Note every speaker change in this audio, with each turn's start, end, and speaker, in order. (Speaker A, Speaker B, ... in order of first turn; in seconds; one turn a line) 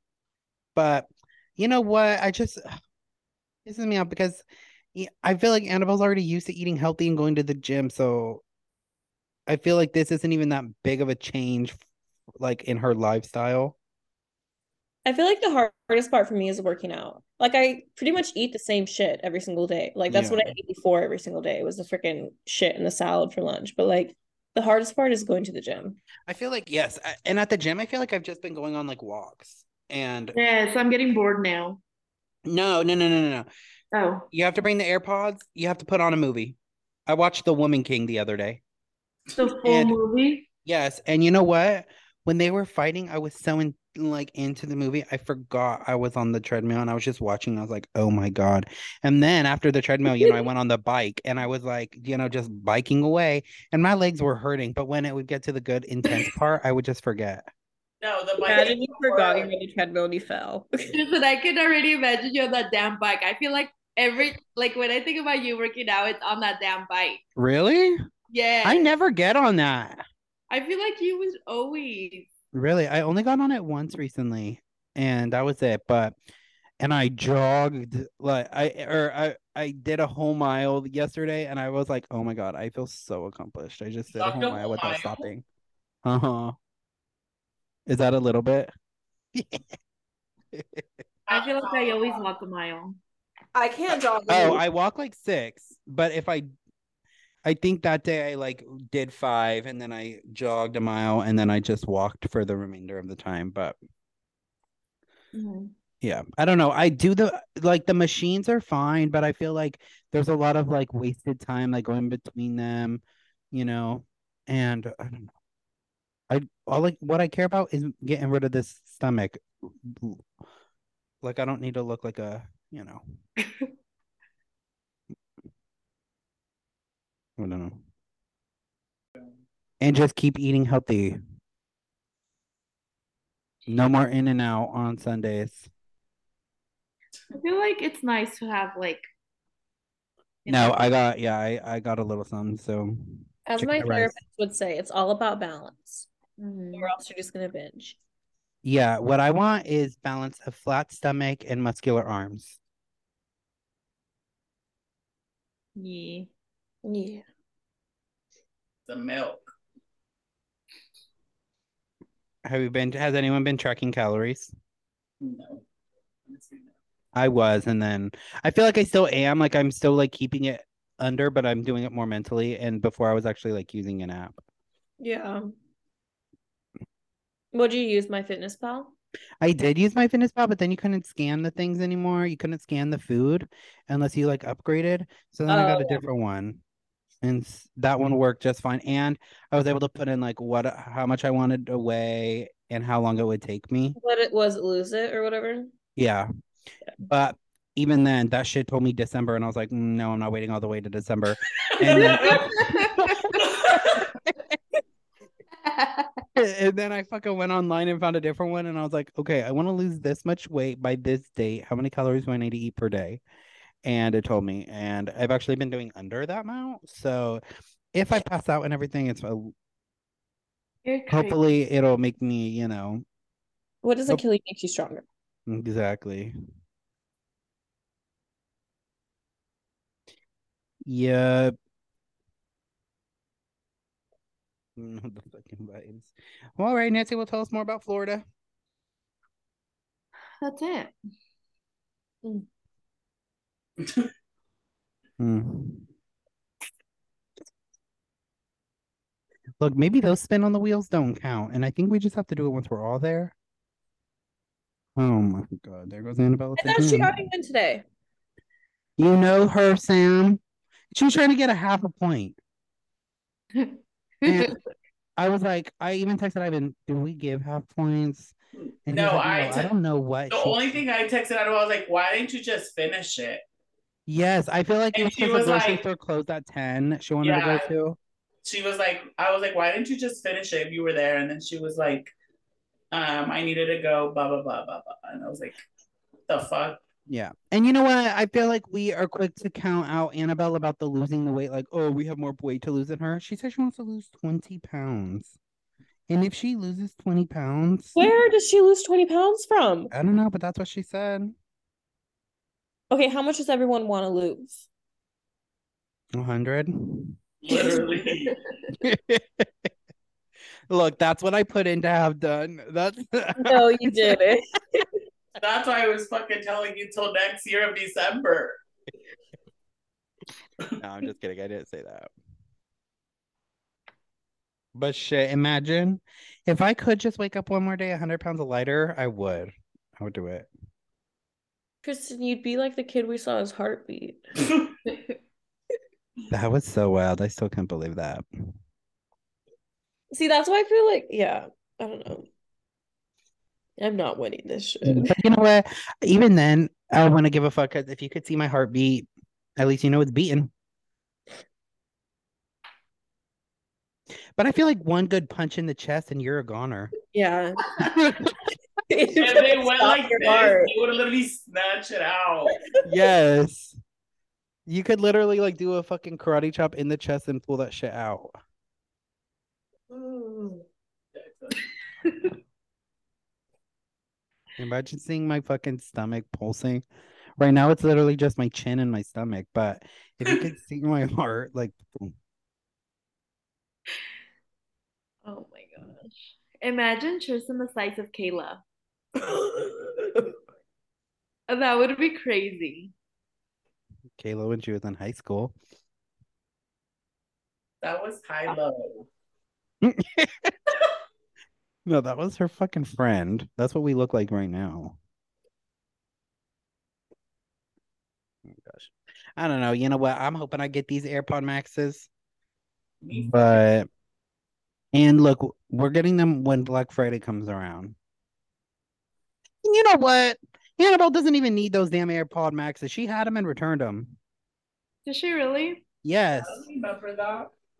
Speaker A: 0.8-2.7
Speaker A: 3.7-8.4
Speaker A: 9.5-11.8
Speaker A: 12.4-13.8
Speaker B: 15.1-26.0
Speaker A: 20.1-20.5
Speaker A: 26.3-30.4
Speaker C: 30.3-31.8
Speaker A: 32.5-33.5
Speaker C: 33.9-34.2
Speaker A: 34.3-38.6
Speaker C: 39.4-40.5
Speaker A: 39.6-40.0
Speaker A: 40.6-57.5
Speaker D: 58.0-59.5
Speaker B: 58.4-60.7
Speaker C: 60.9-67.2
Speaker A: 67.4-68.0
Speaker C: 68.3-68.9
Speaker A: 68.6-70.0
Speaker C: 70.5-72.3
Speaker A: 72.5-76.2
Speaker A: 76.8-85.5
Speaker D: 84.2-85.2
Speaker A: 86.0-86.5
Speaker A: 87.9-88.7
Speaker A: 89.3-89.6
Speaker A: 90.5-90.9
Speaker D: 91.3-92.2
Speaker C: 91.3-93.0
Speaker B: 93.5-94.6
Speaker A: 94.3-96.5
Speaker A: 97.5-103.8
Speaker C: 105.3-105.7
Speaker A: 106.0-115.3
Speaker A: 116.3-120.2
Speaker A: 121.2-123.0
Speaker A: 127.4-127.8
Speaker A: 129.8-131.2
Speaker A: 133.7-135.7
Speaker C: 137.3-139.0
Speaker C: 140.4-140.9
Speaker A: 140.5-144.2
Speaker B: 143.5-146.1
Speaker C: 146.4-146.9
Speaker B: 146.7-148.0
Speaker A: 148.6-152.6
Speaker C: 155.8-156.3
Speaker B: 156.8-157.2
Speaker D: 158.9-159.5
Speaker A: 162.4-164.5
Speaker D: 165.2-165.6
Speaker D: 166.3-166.7
Speaker A: 167.2-174.4
Speaker B: 175.0-175.5
Speaker B: 177.5-178.9
Speaker A: 179.4-186.6
Speaker B: 185.5-186.0
Speaker A: 187.2-194.0
Speaker B: 194.0-195.7
Speaker A: 196.0-196.3
Speaker A: 197.1-204.3
Speaker D: 201.8-202.5
Speaker C: 202.0-203.5
Speaker D: 203.4-204.1
Speaker C: 205.6-206.1
Speaker A: 206.4-213.2
Speaker A: 213.8-217.4
Speaker A: 217.9-219.5
Speaker C: 220.8-221.4
Speaker A: 221.1-223.0
Speaker B: 223.8-225.1
Speaker A: 225.5-226.3
Speaker A: 230.8-231.6
Speaker A: 234.8-238.2
Speaker C: 240.4-240.9
Speaker D: 243.8-244.1
Speaker A: 245.2-245.9
Speaker A: 249.6-253.3
Speaker A: 255.0-257.1
Speaker B: 256.6-257.8
Speaker A: 259.0-260.4
Speaker A: 260.9-262.4
Speaker C: 263.6-264.6
Speaker A: 264.2-264.6
Speaker A: 265.2-268.3
Speaker D: 268.6-269.7
Speaker A: 268.9-270.8
Speaker D: 270.3-273.4
Speaker A: 274.1-278.0
Speaker D: 274.9-275.8
Speaker D: 277.2-277.7
Speaker D: 278.4-282.1
Speaker D: 282.9-285.6
Speaker D: 286.3-286.8
Speaker A: 287.1-295.4
Speaker A: 296.1-298.0
Speaker B: 297.9-299.9
Speaker A: 299.9-301.4
Speaker B: 302.9-304.7
Speaker A: 306.1-307.2
Speaker D: 307.4-308.3
Speaker C: 307.5-308.7
Speaker A: 308.8-309.7
Speaker A: 310.7-314.2
Speaker B: 313.4-314.9
Speaker D: 315.4-318.6
Speaker A: 320.8-322.1
Speaker A: 324.8-330.5
Speaker B: 331.8-334.2
Speaker A: 336.3-338.2
Speaker B: 340.1-342.3
Speaker B: 343.8-345.1
Speaker A: 344.9-350.5
Speaker A: 354.4-356.9
Speaker B: 357.1-357.7
Speaker A: 357.8-358.3
Speaker B: 358.9-360.7
Speaker D: 359.2-362.6
Speaker A: 362.8-363.8
Speaker A: 364.7-368.3
Speaker B: 369.9-370.6
Speaker D: 371.1-371.6
Speaker C: 372.1-372.3
Speaker A: 374.6-376.9
Speaker A: 377.4-382.1
Speaker C: 385.2-388.6
Speaker B: 389.2-390.1
Speaker C: 391.5-392.9
Speaker A: 394.2-395.6
Speaker D: 397.8-399.1
Speaker A: 399.8-400.5
Speaker A: 401.9-405.0
Speaker A: 408.5-412.1
Speaker D: 413.0-413.6
Speaker A: 413.1-413.9
Speaker A: 414.9-418.0
Speaker A: 419.6-424.2
Speaker C: 425.1-425.8
Speaker A: 426.0-426.7
Speaker D: 426.4-427.5